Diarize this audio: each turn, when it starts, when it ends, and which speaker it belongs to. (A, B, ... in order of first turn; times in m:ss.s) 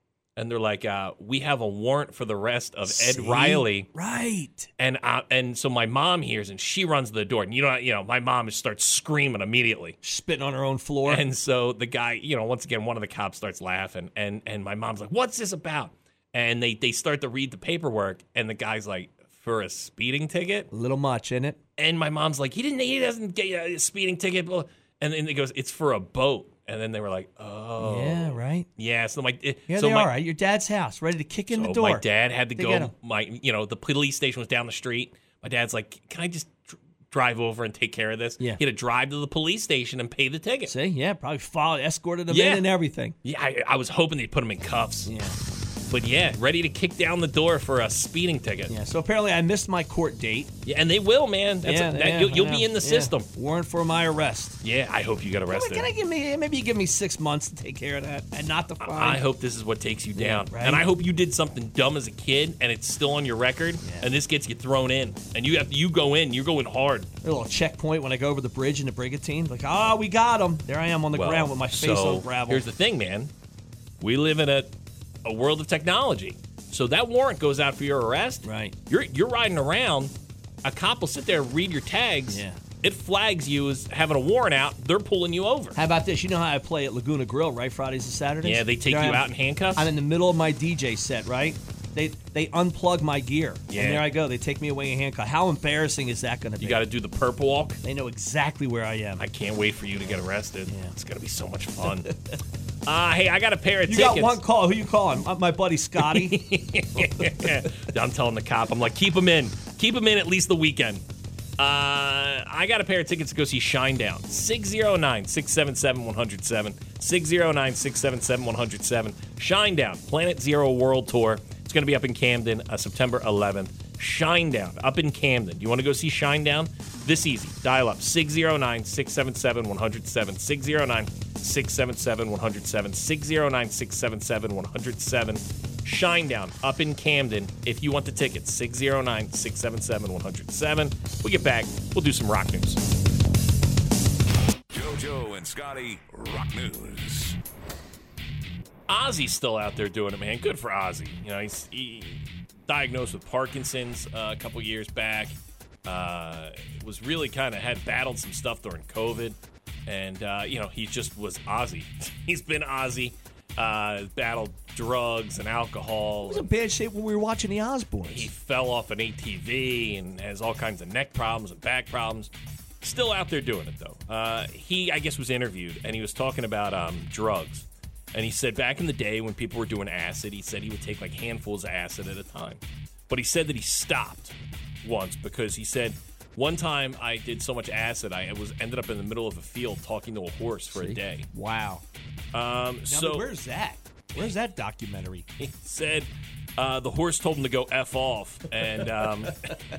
0:00.4-0:03.9 A
0:02.8-0:04.7 B
0:04.8-0:10.0 A
0:10.0-0:11.2 B
0:11.0-0:20.7 A
0:20.7-0:21.6 B
0:21.8-0:30.1 A
0:27.8-0:28.7 B
0:29.7-0:32.9 B
0:31.5-0:40.7 A
0:40.6-0:43.1 B
0:42.3-0:42.7 A
0:43.2-0:45.1 A
0:45.0-0:45.4 B
0:45.9-0:48.7 A
0:48.7-0:50.5 B
0:50.6-0:53.3 A
0:51.6-0:54.6 B
0:54.6-0:55.9 A
0:55.5-0:59.2 B
0:58.8-1:07.1 A
1:00.1-1:00.9 B
1:03.8-1:04.1 B
1:07.2-1:12.6 B
1:11.1-1:13.3 A
1:14.0-1:14.7 A
1:15.2-1:20.1 A
1:18.4-1:18.7 B
1:20.6-1:25.8 A
1:22.3-1:22.6 B
1:25.7-1:36.8 B
1:28.4-1:29.9 A
1:33.7-1:34.1 A
1:36.6-1:37.8 A
1:37.8-1:39.2 B
1:39.2-1:42.1 A
1:40.7-1:40.9 B
1:42.0-1:42.3 B
1:42.8-1:44.4 A
1:43.9-1:46.4 B
1:46.0-1:51.0 A
1:47.0-1:47.5 B
1:51.6-2:22.8 A
2:24.7-2:27.4 C
2:28.9-2:39.4 A
2:39.9-2:46.5 A
2:46.2-2:48.3 B
2:48.0-2:52.3 A
2:52.8-3:11.3 A
3:10.7-3:11.8 B
3:12.3-3:13.3 A
3:12.9-3:15.3 B
3:15.4-3:19.6 A